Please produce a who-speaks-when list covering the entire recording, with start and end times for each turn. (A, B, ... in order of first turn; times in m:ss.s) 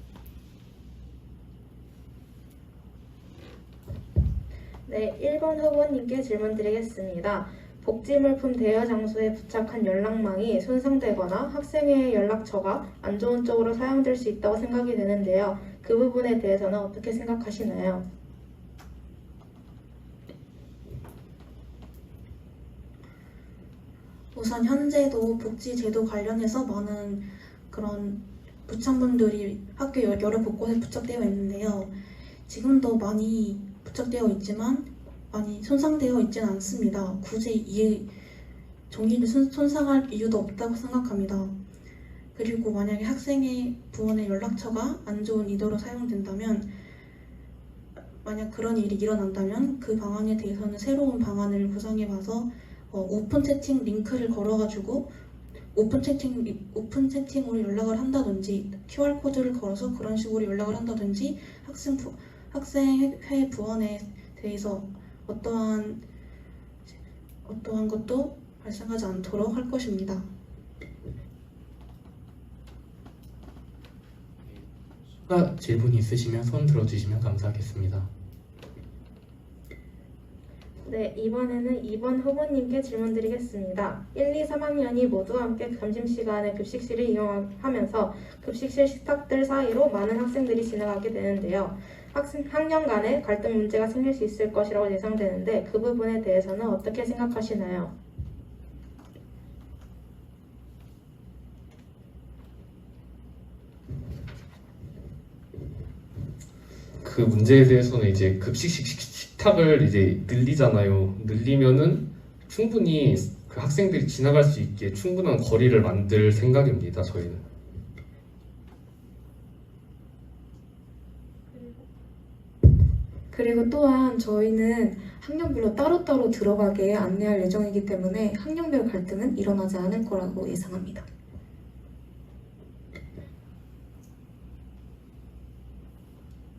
0:04.9-0:18.0 A
0:24.3-0:31.9 B
0:32.5-0:38.1 B
0:38.9-0:41.5 B
0:42.4-0:46.7 B
0:48.2-0:55.1 B
0:55.7-1:06.0 B
1:07.4-1:10.2 B
1:15.3-1:18.1 C
1:20.9-1:26.9 A
1:27.1-1:30.1 B
1:27.6-1:37.9 A
1:32.8-1:33.1 B
1:47.0-1:57.4 D
2:03.3-2:11.1 E